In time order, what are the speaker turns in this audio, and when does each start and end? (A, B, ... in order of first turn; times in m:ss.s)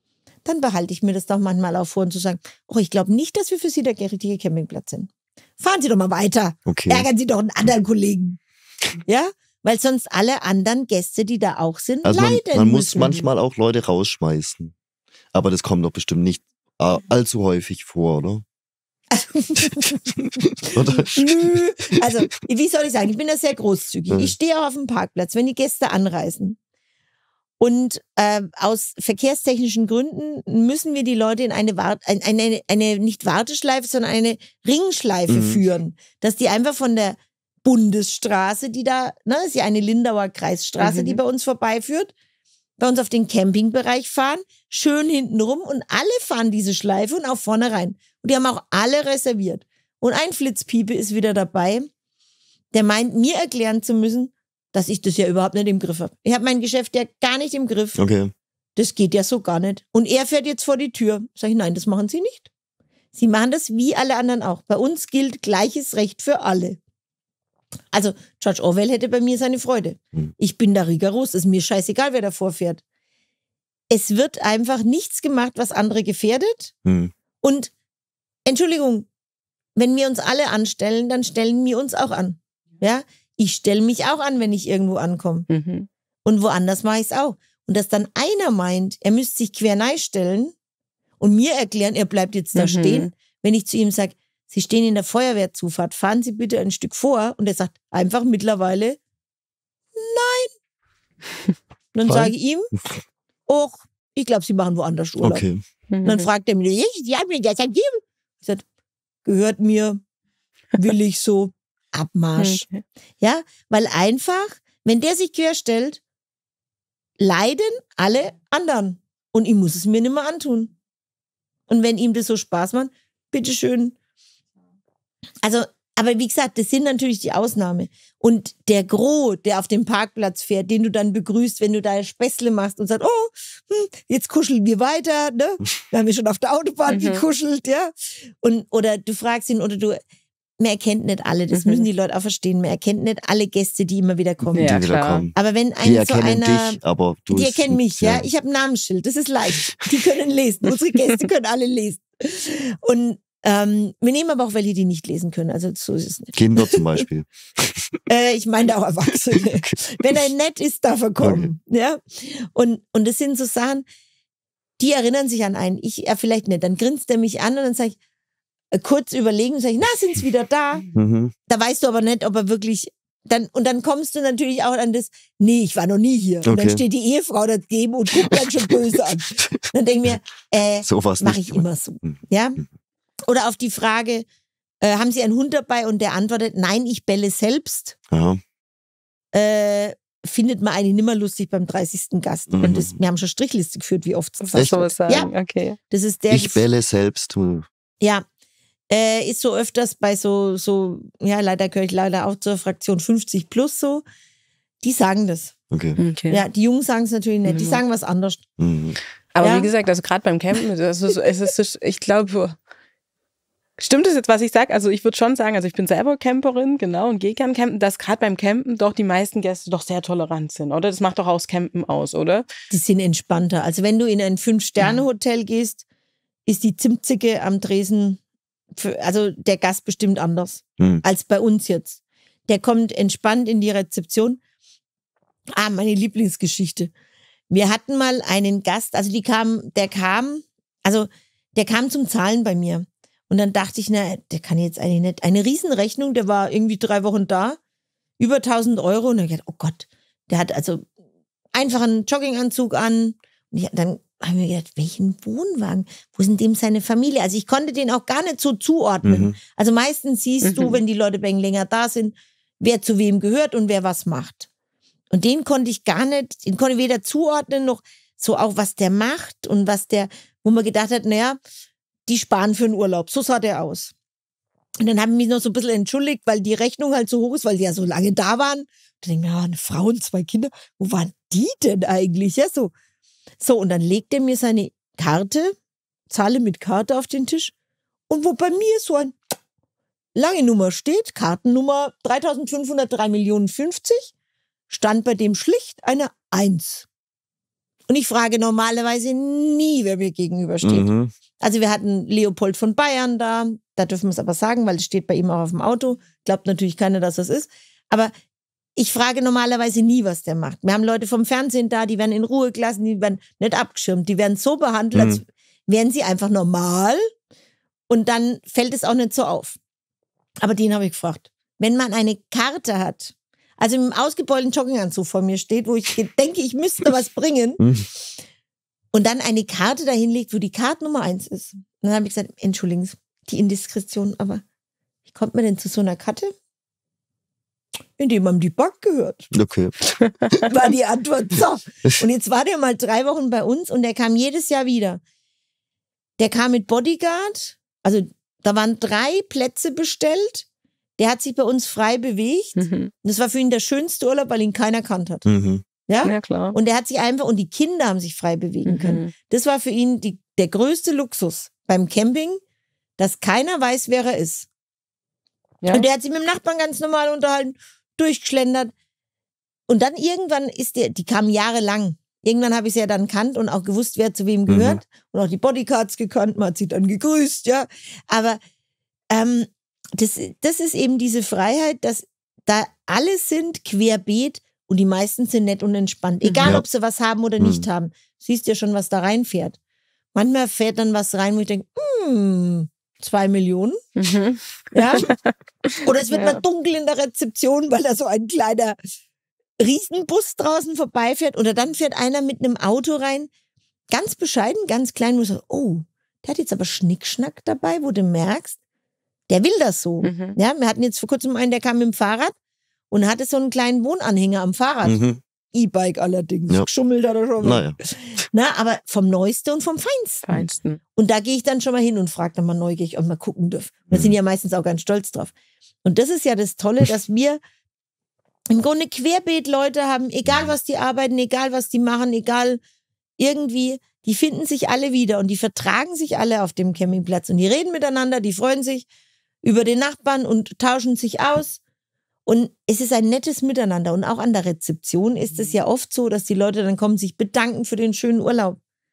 0:00.4-0:08.4 A
0:06.7-0:07.1 B
0:09.0-0:13.2 A
0:12.0-0:14.7 B
0:15.3-0:18.4 B
0:19.1-0:26.6 A
0:20.7-0:22.0 B
0:27.6-0:42.1 A
0:35.3-0:35.6 B
0:40.8-0:41.2 C
0:42.8-0:51.9 A
0:52.7-0:58.0 A
0:58.0-0:58.3 B
0:58.8-1:02.5 A
1:03.1-1:06.8 A
1:07.9-1:12.8 A
1:13.9-1:16.7 A
1:16.8-1:17.1 B
1:17.4-1:17.7 A
1:18.5-1:19.1 A
1:19.8-1:25.5 A
1:25.5-1:25.9 C
1:26.2-1:30.5 A
1:31.2-1:39.0 A
1:32.6-1:33.1 C
1:40.0-1:40.5 A
1:41.9-1:42.7 A
1:42.1-1:42.3 B
1:43.5-1:45.4 A
1:45.2-1:45.6 B
1:45.9-1:46.3 C
1:46.0-1:48.6 A
1:49.2-1:50.0 A
1:50.8-1:52.6 A
1:52.4-1:52.8 C
1:53.2-1:56.0 A
1:57.2-2:00.7 A
2:01.7-2:04.0 A
2:05.4-2:20.0 A
2:16.9-2:17.2 C
2:20.6-2:26.8 A
2:21.5-2:21.8 C
2:24.5-2:25.3 C
2:24.6-2:28.3 B
2:27.3-2:37.0 A
2:36.4-2:38.0 B
2:38.1-2:43.8 A
2:39.4-2:40.2 B
2:41.2-2:41.5 B
2:44.8-2:48.0 A
2:48.7-2:50.9 A
2:50.9-2:51.3 B
2:51.5-3:02.6 A
2:56.4-2:56.8 B
2:59.4-2:59.6 B
3:00.9-3:02.2 B
3:03.3-3:04.3 A
3:04.8-3:08.0 A
3:08.1-3:08.4 B
3:09.3-3:15.3 A
3:12.5-3:13.0 B
3:14.4-3:15.8 C
3:15.9-3:16.6 A
3:16.3-3:17.7 B
3:18.9-3:24.0 A
3:24.8-3:25.5 A
3:25.7-3:26.0 B
3:26.0-3:26.4 C
3:26.3-3:28.4 A
3:27.5-3:27.8 C
3:28.6-3:29.0 B
3:29.4-3:32.6 C
3:29.4-3:29.7 A
3:33.8-3:42.5 C
3:42.7-3:45.8 A
3:46.5-3:48.2 A
3:48.8-3:54.4 A
3:55.6-3:56.9 A
3:57.5-4:07.6 A
4:08.2-4:10.9 A
4:11.5-4:24.5 A
4:19.0-4:19.4 B
4:20.4-4:20.8 C
4:25.1-4:31.4 A
4:32.1-4:33.9 A
4:34.8-4:42.7 A
4:43.4-4:45.6 A
4:46.1-4:47.5 A
4:48.1-4:49.2 A
4:50.2-4:54.1 A
4:54.7-4:56.9 A
4:57.9-5:08.1 A
5:00.6-5:01.1 B
5:08.8-5:17.1 A
5:15.0-5:15.2 B
5:17.9-5:19.6 A
5:20.4-5:27.6 A
5:27.6-5:27.9 B
5:28.9-5:34.4 A
5:35.1-5:36.3 A
5:38.0-5:39.3 A
5:39.3-5:39.7 B
5:40.4-5:45.0 A
5:46.2-5:50.5 A
5:51.0-5:55.3 A
5:52.6-5:52.9 C
5:55.3-5:55.6 B
5:55.9-6:02.4 A
5:56.0-5:56.6 C
5:58.7-5:59.1 C
6:03.0-6:04.5 A
6:05.7-6:08.7 A
6:09.7-6:18.4 A
6:14.5-6:14.8 B
6:19.1-6:29.6 A
6:26.2-6:26.5 C
6:27.4-6:27.7 B
6:30.2-6:33.8 A
6:34.0-6:36.4 C
6:34.7-6:35.1 A
6:35.8-6:38.8 A
6:39.6-6:43.3 A
6:43.9-6:48.6 A
6:49.3-6:52.3 A
6:50.0-6:50.4 C
6:52.9-6:55.0 A
6:54.8-6:55.2 B
6:55.5-7:05.3 A
6:57.4-6:57.8 B
7:00.3-7:00.8 C
7:03.9-7:04.2 B
7:05.8-7:07.4 A
7:08.5-7:12.6 A
7:13.2-7:18.9 A
7:19.4-7:21.6 A
7:22.3-7:28.6 A